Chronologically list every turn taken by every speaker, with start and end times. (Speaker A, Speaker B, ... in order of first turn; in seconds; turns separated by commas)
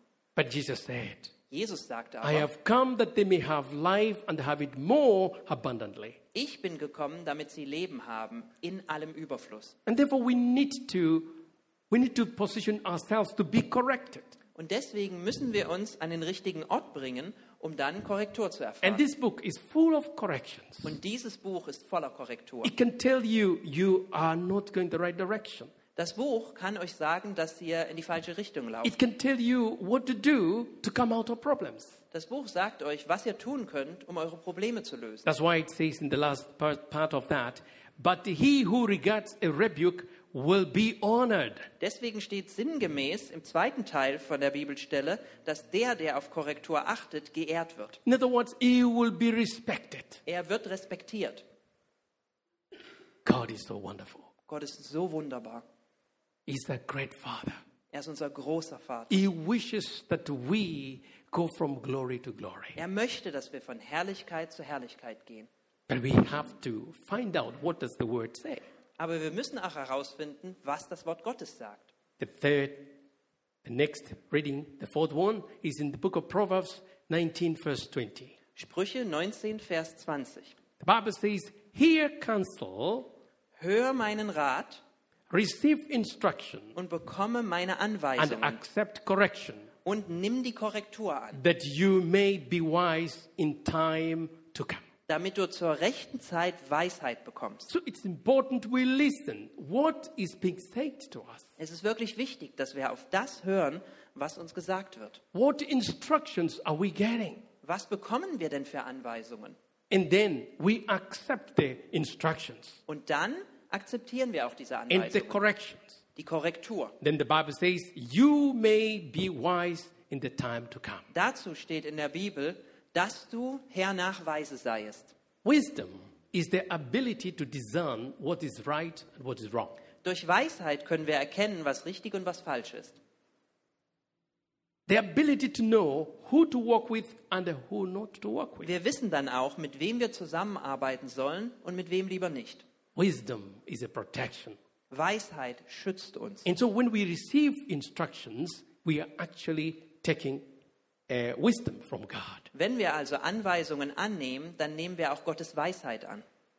Speaker A: 0.3-1.3, Speaker B: 1.5-2.5, Speaker A: 2.2-6.2, Speaker B: 6.3-9.7, Speaker A: 9.8-14.3, Speaker B: 14.6-19.0, Speaker A: 18.8-20.9, Speaker B: 20.8-22.7, Speaker A: 22.6-25.7, Speaker B: 25.9-28.9, Speaker A: 28.8-32.0, Speaker B: 32.1-35.2, Speaker A: 35.2-41.7, Speaker B: 41.8-48.0, Speaker A: 48.0-50.2, Speaker B: 50.2-51.4, Speaker A: 53.2-54.3, Speaker B: 54.5-55.6, Speaker A: 56.5-57.6, Speaker B: 57.9-59.2, Speaker A: 59.1-62.8, Speaker B: 62.8-65.5, Speaker A: 65.9-68.6, Speaker B: 69.0-71.9, Speaker A: 72.2-73.0, Speaker A: 73.6-78.3, Speaker B: 78.5-80.5, Speaker A: 80.8-83.1, Speaker B: 83.6-84.8, Speaker A: 85.3-86.8, Speaker B: 86.8-88.6, Speaker A: 88.2-89.7, Speaker B: 89.8-91.4, Speaker A: 91.3-94.8, Speaker B: 95.1-97.7, Speaker A: 97.7-101.5, Speaker B: 101.6-105.2, Speaker A: 105.3-107.4, Speaker B: 107.6-109.5, Speaker A: 109.9-112.8, Speaker B: 112.9-115.4, Speaker A: 114.9-116.0, Speaker B: 116.2-116.9, Speaker A: 117.0-121.1, Speaker B: 121.1-125.1, Speaker A: 125.4-129.8, Speaker B: 130.0-133.0, Speaker A: 134.9-138.7, Speaker B: 138.6-142.6, Speaker A: 142.9-144.6, Speaker B: 144.9-146.4, Speaker A: 146.4-150.5, Speaker A: 151.1-152.5, Speaker B: 152.5-156.2